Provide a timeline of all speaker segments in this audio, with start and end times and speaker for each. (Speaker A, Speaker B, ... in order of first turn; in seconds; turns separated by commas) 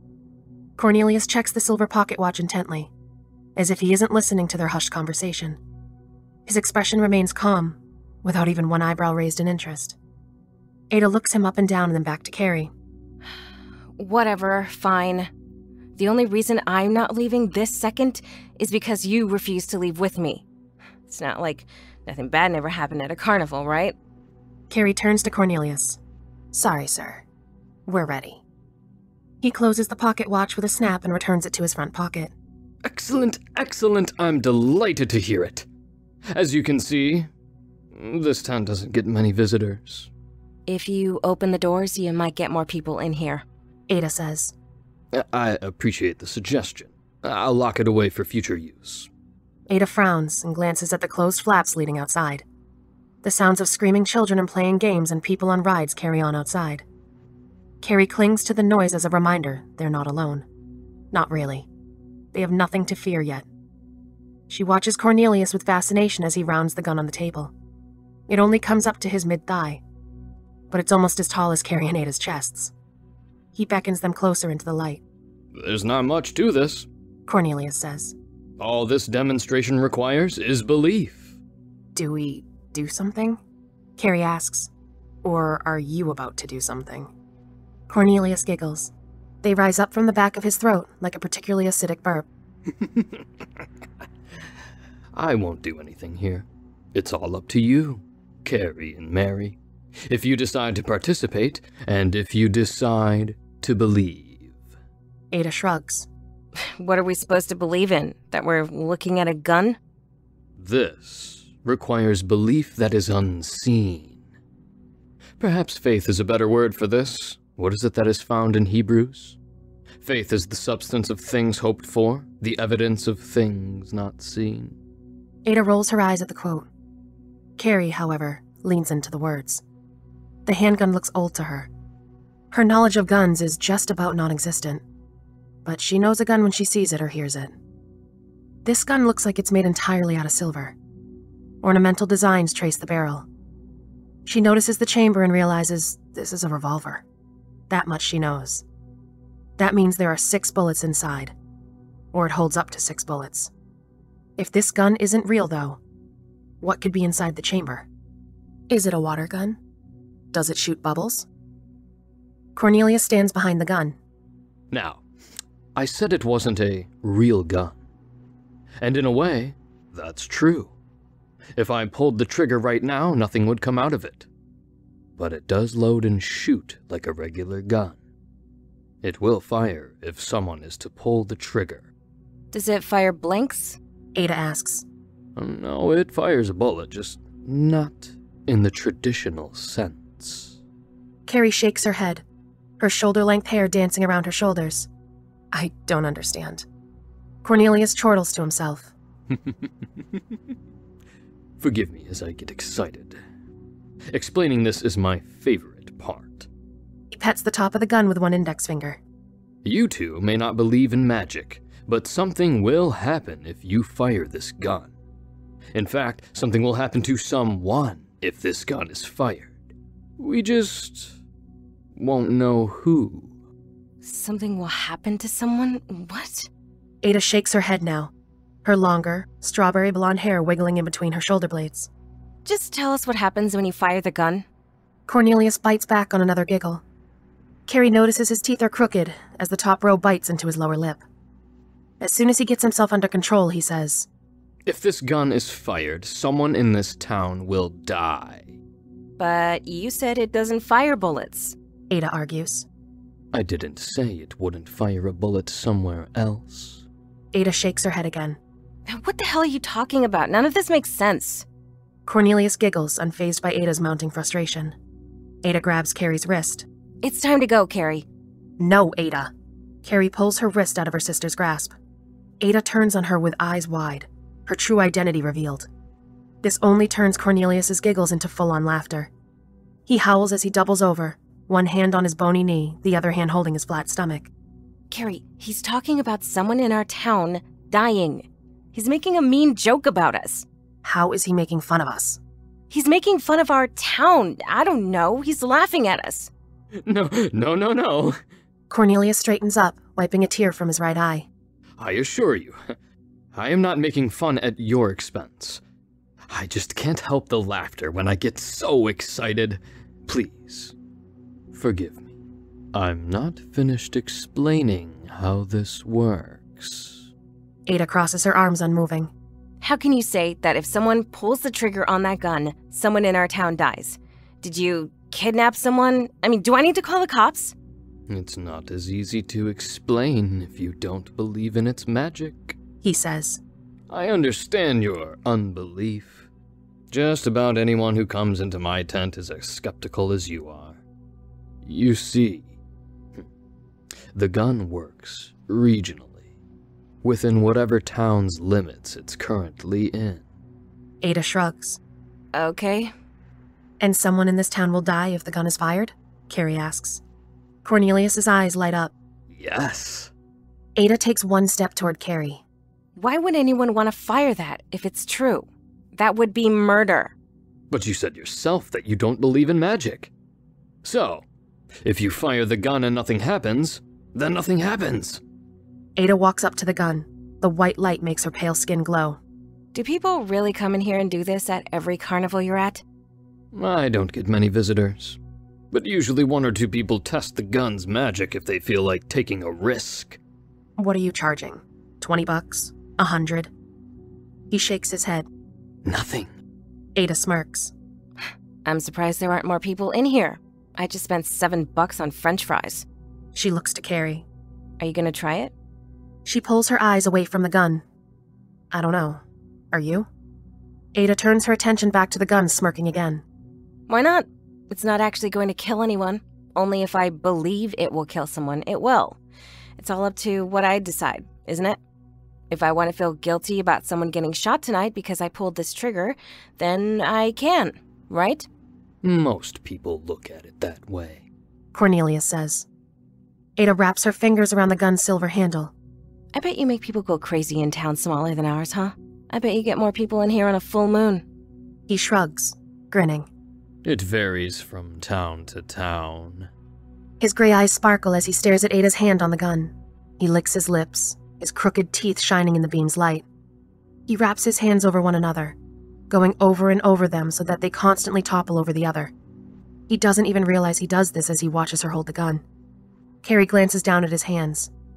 Speaker A: 0.8-2.9, Speaker A: 3.5-5.6, Speaker A: 6.5-10.0, Speaker A: 10.9-12.7, Speaker B: 14.0-15.3, Speaker B: 16.0-20.4, Speaker B: 21.1-23.9, Speaker A: 24.7-26.0, Speaker A: 26.5-27.2, Speaker A: 27.9-28.4, Speaker A: 29.4-32.3, Speaker C: 32.8-35.7, Speaker C: 36.3-37.3, Speaker C: 37.9-40.1, Speaker B: 40.7-43.4, Speaker A: 43.9-44.5, Speaker C: 45.1-49.1, Speaker A: 49.7-52.4, Speaker A: 53.2-56.8, Speaker A: 57.8-60.4, Speaker A: 61.1-61.7, Speaker A: 62.3-63.4, Speaker A: 64.5-67.5, Speaker A: 68.3-69.8, Speaker A: 70.7-72.7, Speaker A: 73.5-75.0, Speaker C: 75.5-76.9, Speaker A: 77.3-78.1, Speaker C: 78.6-81.3, Speaker A: 81.9-83.4, Speaker A: 84.0-84.7, Speaker A: 85.2-87.1, Speaker A: 87.9-88.9, Speaker A: 89.4-92.2, Speaker C: 92.8-93.2, Speaker C: 95.1-104.6, Speaker A: 105.3-106.1, Speaker B: 106.6-109.8, Speaker C: 110.6-114.2, Speaker C: 115.4-119.4, Speaker C: 120.0-124.8, Speaker A: 125.5-126.7, Speaker A: 127.6-129.6, Speaker A: 130.4-131.7, Speaker A: 132.5-134.8, Speaker A: 135.6-137.6, Speaker A: 138.6-140.7, Speaker A: 141.6-143.2, Speaker A: 144.2-147.0, Speaker A: 147.7-148.6, Speaker A: 149.6-151.3, Speaker A: 152.1-153.5, Speaker A: 154.4-155.8, Speaker A: 156.6-157.9, Speaker A: 158.7-159.6, Speaker A: 160.3-161.3, Speaker A: 162.6-163.9, Speaker C: 164.7-165.0, Speaker C: 165.7-167.8, Speaker C: 168.8-170.7, Speaker C: 171.6-174.2, Speaker C: 175.2-178.0, Speaker C: 179.0-181.9, Speaker B: 182.5-183.8, Speaker A: 184.1-184.8, Speaker C: 185.3-190.6, Speaker A: 191.3-192.2, Speaker A: 192.8-194.9, Speaker A: 195.5-196.6, Speaker A: 197.4-198.9, Speaker C: 201.6-203.2, Speaker C: 204.1-206.5, Speaker A: 207.1-209.0, Speaker C: 209.6-214.9, Speaker C: 215.7-219.6, Speaker C: 220.2-221.2, Speaker C: 221.9-223.3, Speaker B: 224.0-226.5, Speaker A: 227.0-228.1, Speaker A: 228.6-231.9, Speaker B: 232.4-234.4, Speaker A: 235.1-236.8, Speaker A: 237.7-241.0, Speaker A: 242.0-244.1, Speaker C: 244.7-248.6, Speaker B: 249.2-251.5, Speaker A: 251.9-252.7, Speaker C: 253.3-256.8, Speaker A: 257.3-258.4, Speaker B: 258.9-261.4, Speaker A: 262.1-264.7, Speaker A: 265.4-266.6, Speaker B: 267.0-268.0, Speaker A: 268.6-269.3, Speaker A: 269.8-271.7, Speaker A: 272.4-275.7, Speaker A: 276.4-279.1, Speaker A: 279.9-284.3, Speaker B: 284.9-290.4, Speaker A: 290.8-292.2, Speaker B: 292.7-296.3, Speaker C: 296.9-298.2, Speaker A: 298.7-301.3, Speaker C: 301.8-302.7, Speaker C: 303.3-305.6, Speaker C: 306.3-310.7, Speaker C: 311.5-312.1, Speaker C: 312.7-317.1, Speaker A: 317.7-319.1, Speaker B: 319.6-327.5, Speaker C: 328.1-332.6, Speaker A: 332.8-333.4, Speaker C: 333.9-336.3, Speaker C: 336.9-340.8, Speaker C: 341.6-342.5, Speaker C: 344.1-346.2, Speaker C: 347.0-350.2, Speaker A: 351.0-351.8, Speaker B: 352.3-352.9, Speaker A: 353.8-357.0, Speaker A: 357.6-358.9, Speaker C: 359.3-360.1, Speaker A: 360.8-362.4, Speaker B: 362.9-367.1, Speaker C: 367.7-370.1, Speaker C: 370.8-371.2, Speaker C: 371.8-375.2, Speaker A: 376.0-379.2, Speaker B: 379.7-382.8, Speaker C: 383.5-385.2, Speaker C: 385.7-390.2, Speaker A: 390.8-393.5, Speaker A: 394.5-395.3, Speaker C: 395.8-396.3, Speaker A: 396.9-397.7, Speaker B: 398.6-402.9, Speaker A: 403.3-404.2, Speaker B: 404.8-405.5, Speaker A: 406.2-407.8, Speaker A: 408.7-410.1, Speaker A: 410.9-413.2, Speaker B: 413.9-419.2, Speaker B: 419.8-421.8, Speaker B: 422.5-428.5, Speaker C: 429.0-431.2, Speaker A: 431.7-432.6, Speaker A: 433.6-435.7, Speaker B: 436.3-441.2, Speaker A: 441.9-443.3, Speaker C: 443.8-446.5, Speaker A: 447.2-453.2, Speaker A: 454.1-455.6, Speaker A: 456.1-459.1, Speaker A: 459.9-462.4, Speaker A: 463.2-464.7